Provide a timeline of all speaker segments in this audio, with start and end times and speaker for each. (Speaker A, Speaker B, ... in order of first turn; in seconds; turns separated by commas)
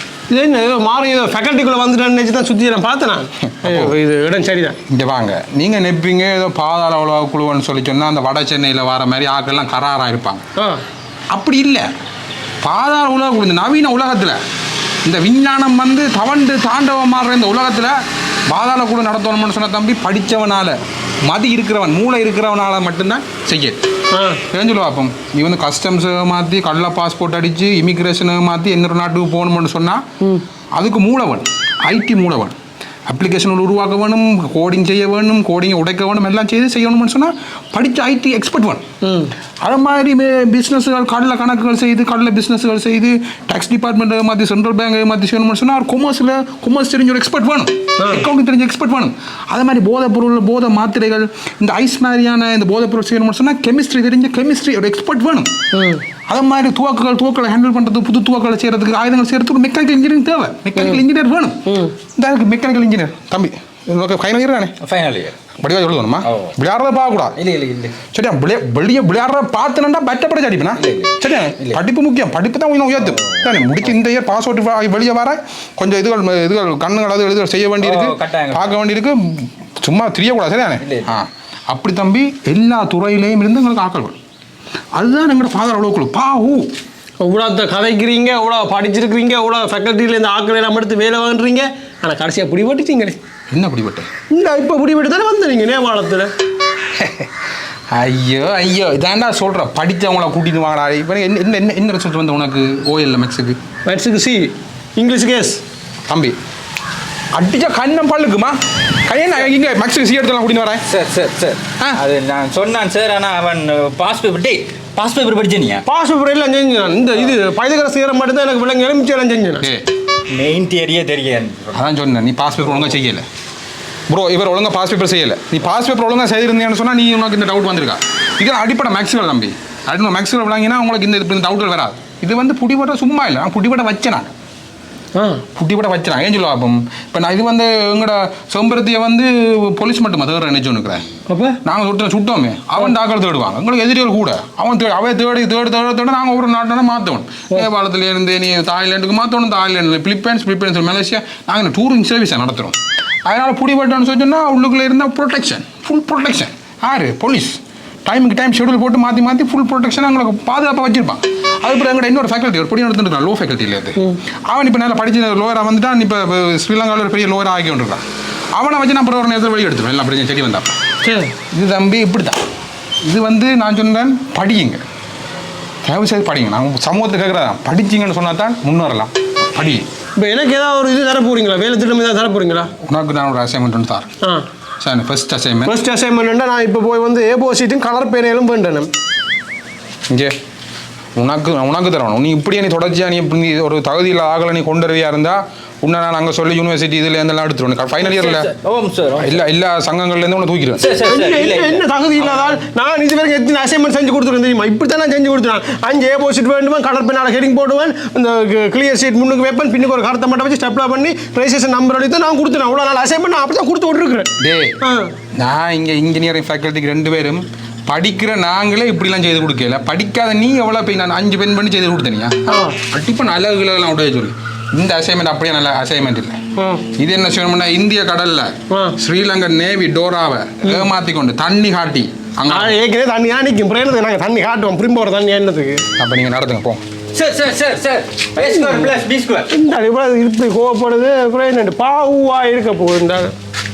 Speaker A: 0.3-4.8, Speaker B: 3.6-3.9, Speaker B: 4.9-10.4, Speaker B: 11.3-11.9, Speaker B: 12.6-14.4, Speaker B: 15.1-18.0, Speaker B: 18.5-20.8, Speaker B: 21.3-23.8, Speaker A: 24.1-24.4, Speaker B: 24.5-30.0, Speaker B: 30.8-32.6, Speaker B: 33.1-38.8, Speaker A: 39.0-39.3, Speaker B: 39.6-55.5, Speaker A: 48.0-48.3, Speaker A: 55.7-56.0, Speaker B: 56.3-64.7, Speaker A: 61.7-62.0, Speaker C: 64.8-65.4, Speaker B: 65.6-67.4, Speaker C: 66.2-66.5, Speaker C: 67.3-68.0, Speaker B: 68.1-84.2, Speaker C: 70.8-71.8, Speaker C: 73.0-73.9, Speaker C: 77.8-78.8, Speaker C: 80.8-81.2, Speaker B: 85.0-86.7, Speaker A: 87.2-93.2, Speaker B: 93.5-94.1, Speaker A: 94.3-96.3, Speaker B: 97.0-97.3, Speaker B: 97.9-103.6, Speaker A: 103.9-105.6, Speaker B: 106.1-106.4, Speaker B: 107.3-110.8, Speaker C: 110.9-115.8, Speaker A: 115.8-119.7, Speaker C: 120.3-121.8, Speaker B: 121.7-123.2, Speaker B: 124.1-134.3, Speaker A: 135.2-135.4, Speaker B: 135.6-141.1, Speaker A: 141.3-141.6, Speaker B: 141.7-168.0, Speaker B: 168.6-170.7, Speaker A: 171.0-171.3, Speaker B: 171.5-172.4, Speaker B: 173.0-174.8, Speaker B: 175.8-179.9, Speaker A: 180.2-182.7, Speaker B: 182.8-184.1, Speaker B: 184.8-185.8, Speaker A: 185.7-188.9, Speaker B: 191.2-198.5, Speaker C: 198.0-199.4, Speaker B: 199.2-200.8, Speaker C: 200.8-202.6, Speaker A: 201.1-214.3, Speaker B: 214.4-214.7, Speaker A: 214.8-215.1, Speaker B: 215.3-226.4, Speaker A: 222.5-222.8, Speaker A: 226.6-226.8, Speaker B: 227.0-232.8, Speaker A: 228.7-229.0, Speaker A: 230.6-230.9, Speaker A: 232.5-235.8, Speaker B: 236.0-236.8, Speaker C: 237.1-239.5, Speaker A: 238.4-239.0, Speaker A: 239.5-243.3